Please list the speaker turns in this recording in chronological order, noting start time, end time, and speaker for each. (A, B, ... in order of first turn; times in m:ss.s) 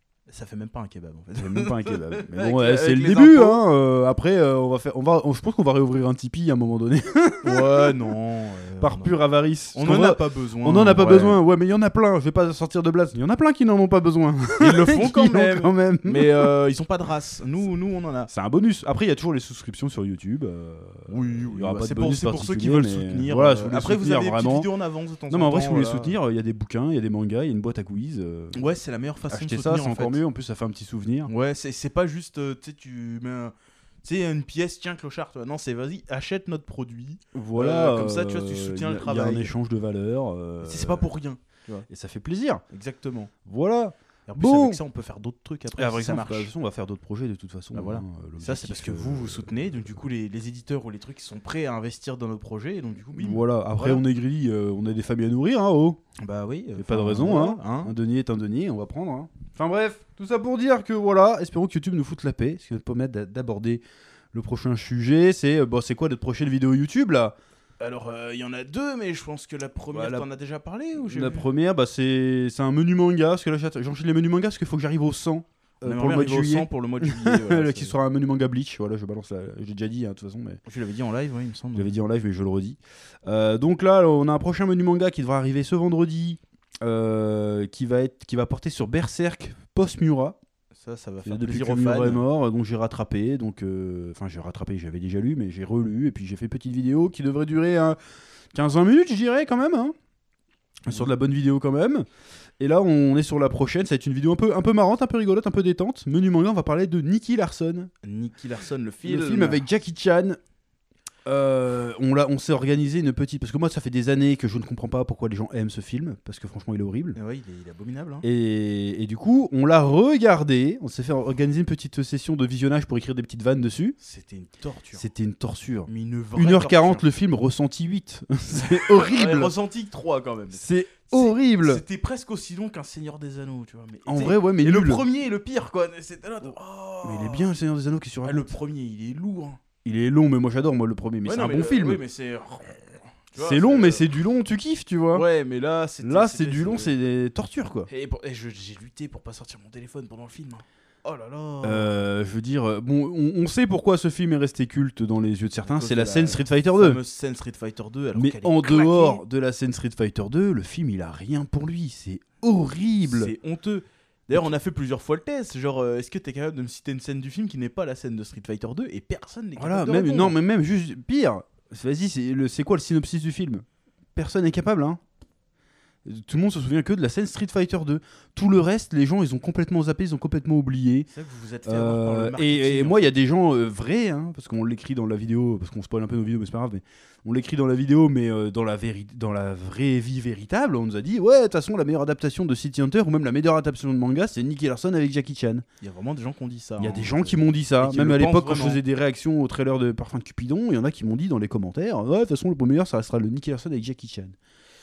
0:00.3-0:03.6 A
0:01.4-0:08.0 B
0:07.4-0:09.2 A
0:08.8-0:16.5 B
0:09.7-0:11.4 A
0:14.6-0:18.3 A
0:18.3-0:24.7 B
0:21.1-0:26.2 A
0:25.3-0:28.6 B
0:28.5-0:30.2 A
0:29.3-0:31.3 B
0:31.3-0:39.5 A
0:37.3-0:41.1 B
0:40.6-0:41.9 A
0:41.9-0:42.6 B
0:42.7-0:43.3 A
0:43.4-0:44.8 B
0:44.3-0:46.5 A
0:45.8-0:49.5 B
0:47.7-0:54.0 A
0:53.2-0:56.0 B
0:56.2-0:57.9 A
0:56.8-1:03.8 B
1:04.3-1:07.4 B
1:07.8-1:11.5 A
1:09.9-1:10.2 B
1:10.9-1:20.6 B
1:15.8-1:18.0 A
1:20.7-1:21.9 A
1:21.7-1:30.4 B
1:30.8-1:32.2 A
1:31.2-1:38.0 B
1:38.5-1:39.9 B
1:40.8-1:42.0 B
1:42.6-1:47.9 B
1:48.0-1:49.6 A
1:49.0-1:50.4 B
1:51.2-1:57.2 B
1:57.1-1:58.2 A
1:58.2-2:04.0 B
2:04.0-2:05.0 A
2:05.0-2:09.5 B
2:05.9-2:07.0 A
2:08.5-2:17.5 A
2:10.5-2:11.8 B
2:14.0-2:15.0 B
2:17.0-2:18.5 B
2:18.2-2:19.6 A
2:19.8-2:22.0 B
2:21.2-2:24.1 A
2:23.4-2:25.2 B
2:25.1-2:26.9 A
2:26.0-2:27.9 B
2:27.9-2:32.0 A
2:31.6-2:37.0 B
2:35.6-2:39.2 A
2:38.1-2:43.3 B
2:43.0-2:50.4 A
2:49.6-2:53.6 B
2:54.2-2:55.0 B
2:56.0-3:01.1 B
3:01.1-3:03.1 A
3:01.6-3:15.6 B
3:15.8-3:18.8 A
3:16.8-3:24.3 B